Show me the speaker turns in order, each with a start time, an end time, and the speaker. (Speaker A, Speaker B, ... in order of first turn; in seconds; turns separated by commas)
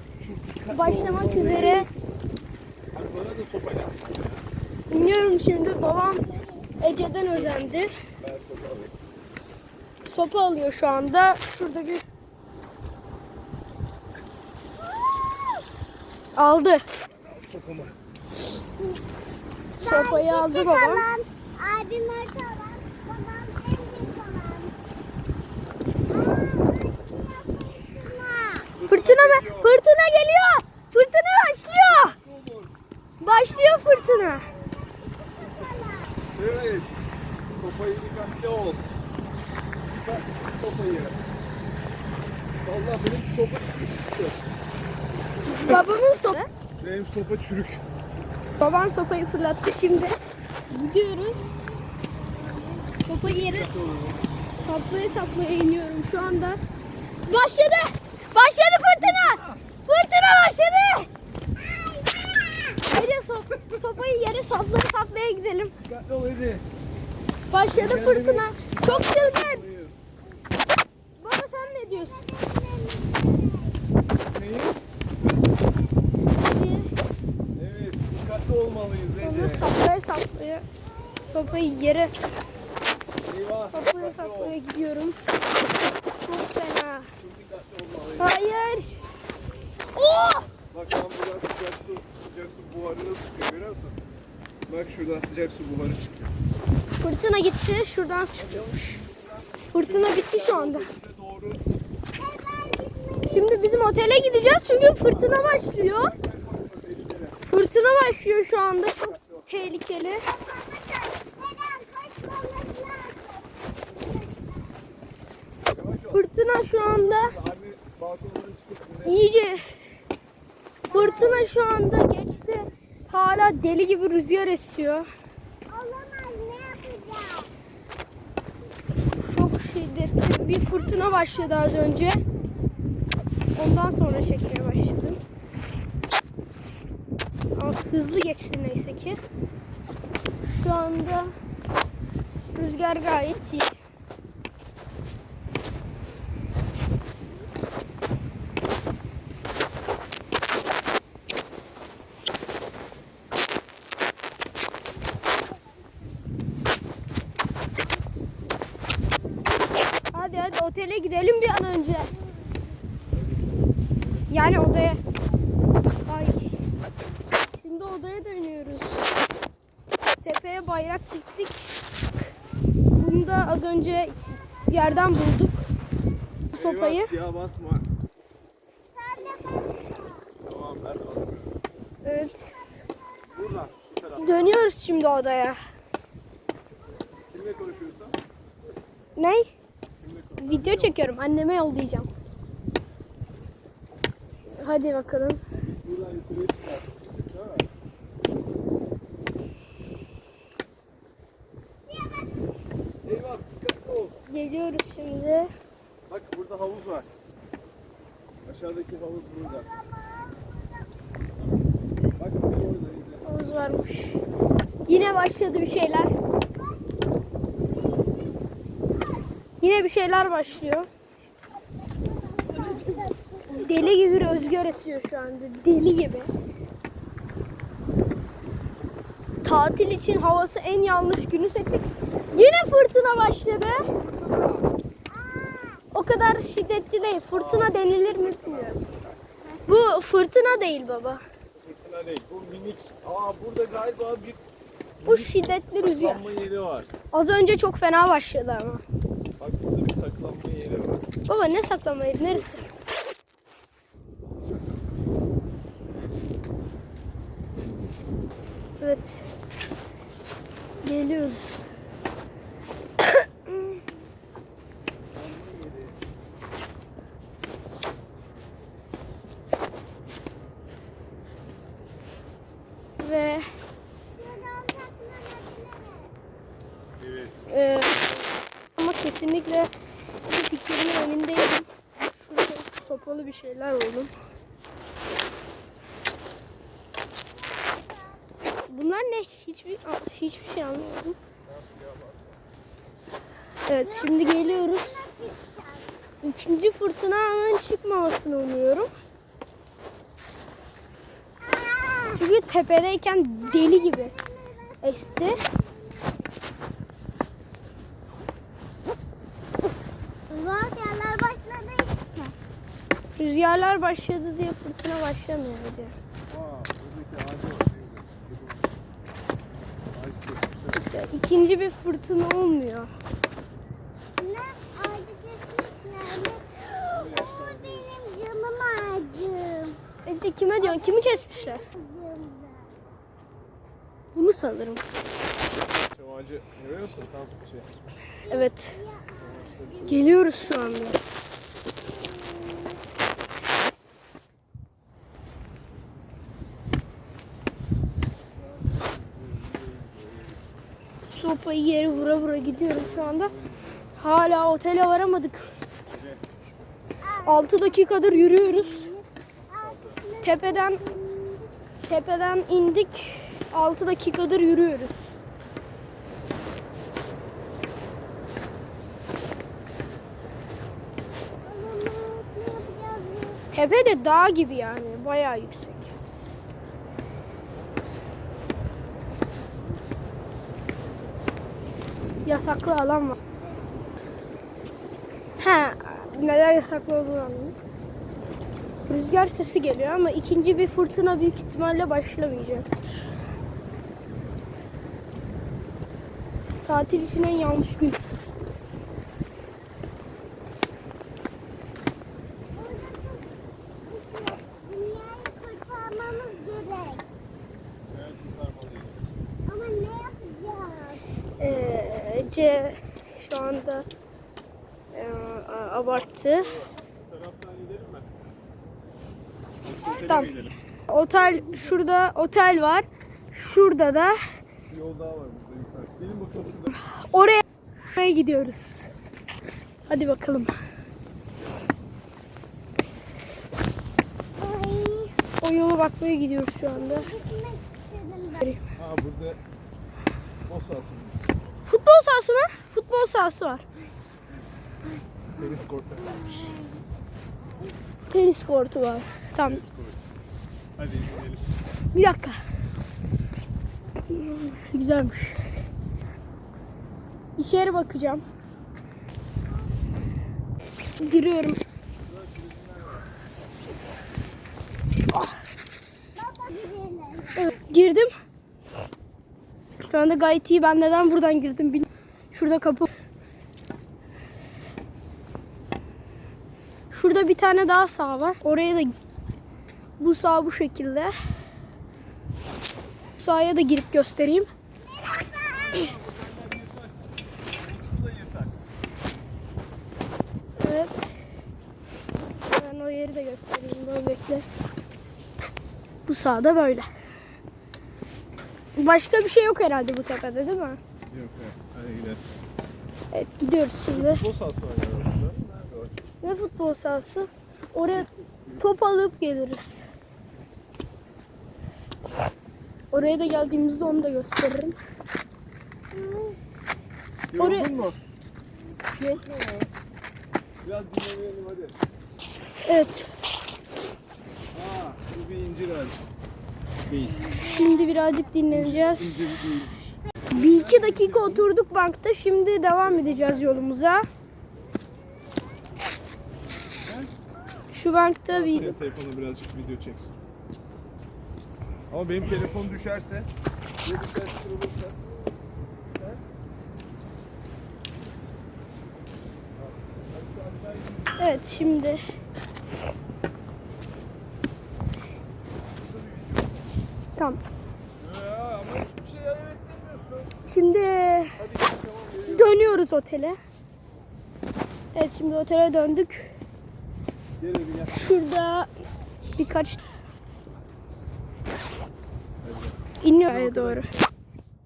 Speaker A: 0.2-2.2, Speaker B: 0.7-1.9, Speaker A: 2.9-4.5, Speaker B: 4.9-7.9, Speaker A: 8.2-8.9, Speaker B: 10.1-12.0, Speaker B: 16.4-16.8, Speaker A: 17.1-17.9, Speaker B: 19.8-21.1, Speaker C: 19.8-24.7, Speaker C: 26.1-28.7, Speaker A: 28.8-29.7, Speaker B: 28.9-32.2, Speaker A: 32.2-32.7, Speaker B: 33.2-34.5, Speaker C: 33.5-36.2, Speaker A: 36.4-36.9, Speaker A: 37.6-38.9, Speaker A: 39.9-41.2, Speaker A: 42.6-44.4, Speaker A: 45.5-45.9, Speaker B: 45.5-46.5, Speaker A: 46.8-47.8, Speaker B: 48.6-50.2, Speaker B: 50.7-51.7, Speaker B: 53.0-53.7, Speaker A: 53.3-54.2, Speaker B: 54.6-56.6, Speaker B: 57.3-61.1, Speaker A: 59.0-59.6, Speaker C: 61.6-62.8, Speaker B: 62.8-65.7, Speaker A: 65.8-66.7, Speaker B: 67.5-69.7, Speaker A: 67.7-70.1, Speaker B: 71.2-72.3, Speaker C: 72.0-73.8, Speaker A: 74.3-74.8, Speaker B: 76.3-76.9, Speaker A: 77.5-79.7, Speaker B: 79.2-80.7, Speaker B: 81.2-82.2, Speaker A: 83.2-84.6, Speaker B: 83.7-85.2, Speaker B: 86.2-87.1, Speaker A: 87.2-88.4, Speaker B: 88.2-89.0, Speaker B: 90.0-90.5, Speaker A: 90.5-94.0, Speaker A: 94.7-96.3, Speaker B: 97.0-99.0, Speaker A: 98.4-101.6, Speaker B: 99.7-100.9, Speaker C: 102.2-103.5, Speaker B: 103.3-106.1, Speaker A: 105.0-107.4, Speaker B: 107.5-110.3, Speaker A: 109.0-109.6, Speaker C: 110.2-114.7, Speaker A: 115.7-116.2, Speaker B: 116.1-117.3, Speaker A: 116.8-119.3, Speaker B: 119.0-119.8, Speaker C: 120.9-121.5, Speaker B: 120.9-125.1, Speaker C: 125.7-127.5, Speaker B: 129.1-132.2, Speaker B: 133.6-135.2, Speaker B: 137.6-139.2, Speaker B: 140.4-141.3, Speaker B: 142.6-143.8, Speaker B: 160.1-162.1, Speaker A: 163.1-164.3, Speaker B: 164.3-165.0, Speaker B: 166.1-166.5, Speaker B: 167.6-169.1, Speaker B: 170.2-171.8, Speaker B: 172.9-174.2, Speaker B: 174.7-175.7, Speaker A: 176.5-177.9, Speaker B: 176.6-177.1, Speaker C: 179.0-180.3, Speaker A: 180.4-181.5, Speaker B: 182.0-182.6, Speaker A: 183.3-184.6, Speaker B: 184.2-185.6, Speaker A: 187.3-188.2, Speaker B: 189.2-189.5, Speaker A: 190.0-191.0, Speaker B: 190.4-192.1, Speaker B: 194.6-195.4, Speaker A: 195.5-197.7, Speaker C: 201.9-202.3, Speaker A: 203.0-204.2, Speaker B: 204.3-205.5, Speaker A: 206.1-207.1, Speaker A: 208.4-209.7, Speaker C: 209.6-210.8, Speaker A: 212.2-213.3, Speaker B: 213.2-214.2, Speaker B: 214.9-216.1, Speaker B: 219.6-220.9, Speaker C: 222.3-223.1, Speaker B: 223.5-226.3, Speaker B: 229.4-233.8, Speaker A: 234.3-234.6, Speaker C: 235.2-235.8, Speaker B: 235.9-238.8, Speaker A: 237.3-239.2, Speaker B: 239.7-241.2, Speaker A: 241.6-244.4, Speaker A: 245.0-246.9, Speaker B: 245.1-246.2, Speaker B: 247.1-248.8, Speaker A: 249.4-251.1, Speaker B: 251.3-252.7, Speaker A: 252.3-252.7, Speaker B: 258.8-259.3, Speaker B: 260.8-261.7, Speaker B: 263.0-263.8, Speaker A: 265.2-266.0, Speaker B: 273.0-273.5, Speaker C: 274.2-276.1, Speaker A: 277.0-277.3, Speaker B: 277.5-278.0, Speaker B: 278.8-279.7, Speaker B: 280.2-284.1, Speaker C: 287.7-288.2, Speaker B: 288.7-291.2, Speaker A: 291.5-292.4, Speaker B: 293.7-295.0, Speaker C: 294.0-296.0, Speaker B: 296.2-298.9, Speaker C: 301.4-302.2, Speaker B: 302.2-304.1, Speaker C: 303.5-306.3, Speaker B: 304.8-305.4, Speaker C: 310.3-312.3, Speaker B: 313.2-315.9, Speaker A: 316.3-318.6, Speaker A: 319.9-320.9, Speaker B: 320.7-322.9, Speaker C: 324.2-329.8, Speaker A: 326.9-327.9, Speaker B: 330.1-331.6, Speaker C: 330.6-332.7, Speaker B: 334.1-334.8, Speaker A: 335.8-337.7, Speaker C: 338.3-340.1, Speaker B: 338.3-338.8, Speaker A: 339.2-340.1, Speaker B: 339.9-341.0, Speaker A: 348.9-350.4, Speaker B: 351.1-353.3, Speaker A: 352.2-353.9, Speaker B: 354.0-355.5, Speaker A: 355.9-356.2, Speaker C: 357.0-361.5, Speaker B: 357.2-358.9, Speaker A: 359.5-360.0, Speaker B: 360.2-360.8, Speaker B: 361.9-365.1, Speaker C: 371.4-373.4, Speaker B: 373.5-375.9, Speaker B: 382.2-383.2, Speaker C: 383.3-383.6, Speaker B: 385.4-387.6, Speaker B: 388.9-392.7, Speaker B: 396.6-398.0, Speaker C: 402.6-407.1, Speaker A: 407.9-409.1, Speaker C: 409.5-411.0, Speaker B: 411.4-413.9, Speaker B: 414.9-416.7, Speaker A: 416.4-418.1, Speaker A: 419.6-420.5, Speaker B: 419.9-420.3, Speaker B: 420.9-424.2, Speaker A: 424.7-426.8, Speaker B: 426.7-428.9, Speaker B: 429.9-430.5, Speaker C: 434.4-435.1, Speaker B: 435.4-437.1, Speaker C: 436.8-438.4, Speaker A: 438.8-439.4, Speaker A: 440.5-441.2, Speaker B: 441.7-443.6, Speaker A: 445.4-446.5, Speaker C: 446.1-446.7, Speaker B: 448.1-449.6, Speaker A: 449.4-450.0, Speaker A: 450.8-451.4, Speaker B: 451.9-452.4, Speaker B: 454.1-455.5, Speaker B: 457.4-458.2, Speaker B: 461.0-461.6, Speaker A: 462.1-463.1, Speaker C: 466.2-467.5, Speaker B: 467.4-468.1, Speaker B: 469.9-472.9, Speaker B: 476.9-478.9, Speaker B: 480.0-481.1, Speaker B: 483.2-484.5, Speaker C: 485.1-485.8, Speaker A: 485.4-488.5, Speaker B: 490.6-491.2, Speaker B: 492.4-494.5, Speaker B: 496.1-496.9, Speaker B: 498.8-500.8, Speaker A: 501.1-502.2, Speaker B: 503.1-504.2, Speaker A: 503.9-506.0, Speaker B: 506.2-509.8, Speaker B: 512.9-514.8, Speaker A: 517.3-518.0, Speaker B: 517.4-517.7, Speaker A: 519.2-519.7, Speaker A: 520.6-521.8, Speaker B: 522.6-523.1, Speaker A: 524.5-526.0, Speaker A: 526.9-527.2, Speaker B: 527.5-529.3, Speaker A: 528.5-531.5, Speaker B: 530.3-534.1, Speaker A: 532.8-533.7, Speaker A: 536.8-537.1, Speaker B: 537.7-538.8, Speaker A: 538.3-540.2, Speaker A: 541.9-543.3, Speaker A: 543.8-545.0, Speaker A: 546.0-546.2, Speaker A: 549.6-552.0, Speaker B: 551.2-552.0, Speaker A: 555.8-556.7, Speaker A: 558.0-560.4, Speaker B: 560.5-561.4, Speaker A: 561.4-562.6, Speaker B: 562.2-563.4, Speaker B: 564.9-566.3, Speaker A: 567.4-568.2, Speaker B: 567.9-568.7, Speaker B: 569.4-569.8, Speaker A: 572.4-572.8, Speaker B: 573.0-573.9, Speaker A: 573.3-574.1